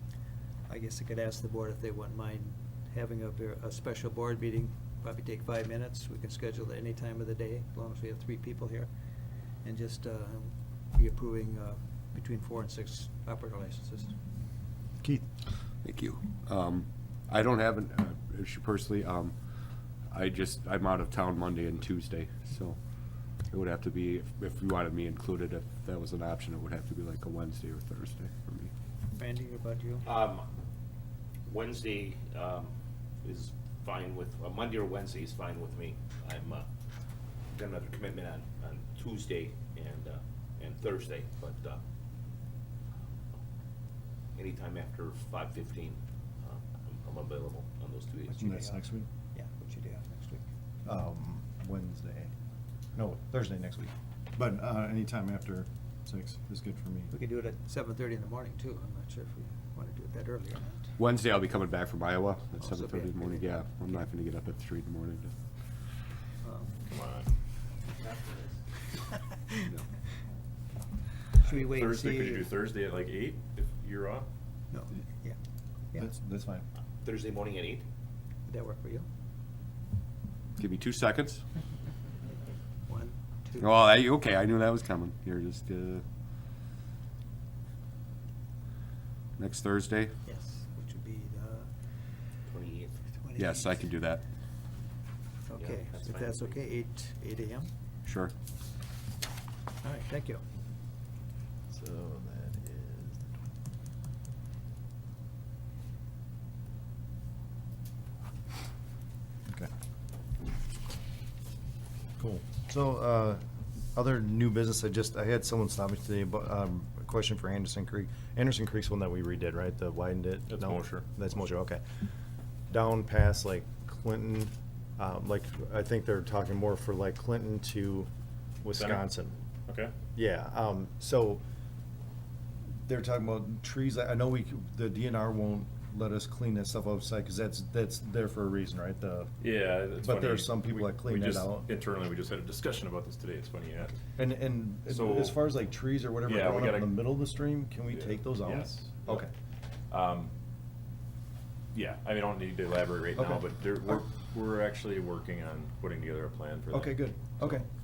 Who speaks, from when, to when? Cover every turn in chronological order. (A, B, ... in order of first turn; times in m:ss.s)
0:00.7-0:08.9 A
0:09.6-0:14.2 A
0:15.9-0:19.3 B
0:20.1-0:22.8 B
0:23.5-0:28.7 B
0:29.2-0:30.1 A
0:30.0-0:30.4 C
0:31.5-0:32.7 C
0:33.2-0:36.7 C
0:37.5-0:41.8 C
0:44.4-0:48.4 C
0:48.3-0:48.8 A
0:48.4-0:49.1 D
0:49.3-0:50.4 A
0:50.8-0:52.3 D
0:53.0-0:57.1 D
0:57.1-1:01.0 A
1:01.0-1:05.3 B
1:02.6-1:04.0 A
1:06.4-1:06.8 A
1:06.9-1:07.3 E
1:08.0-1:08.6 C
1:09.1-1:09.7 A
1:11.4-1:12.5 A
1:11.4-1:14.3 E
1:14.7-1:15.4 A
1:16.0-1:16.6 D
1:17.0-1:17.8 C
1:18.5-1:19.1 A
1:20.6-1:21.4 B
1:22.9-1:24.0 A
1:23.6-1:26.0 B
1:29.4-1:30.1 B
1:30.3-1:31.7 A
1:32.5-1:33.0 C
1:33.2-1:33.9 A
1:33.4-1:34.2 B
1:35.5-1:37.7 A
1:35.6-1:36.6 C
1:38.1-1:38.3 B
1:39.8-1:40.4 A
1:41.7-1:43.3 D
1:52.2-1:53.4 D
1:54.0-2:01.8 D
2:00.5-2:01.1 E
2:02.7-2:08.1 D
2:08.6-2:09.4 D
2:08.7-2:09.0 E
2:09.7-2:09.9 E
2:10.2-2:11.4 D
2:12.8-2:19.3 D
2:19.4-2:24.0 E
2:20.0-2:21.7 D
2:24.2-2:29.3 D
2:24.9-2:25.4 E
2:26.3-2:27.0 E
2:27.9-2:29.3 E
2:29.9-2:30.3 E
2:31.7-2:37.6 E
2:33.2-2:34.0 D
2:36.7-2:37.7 D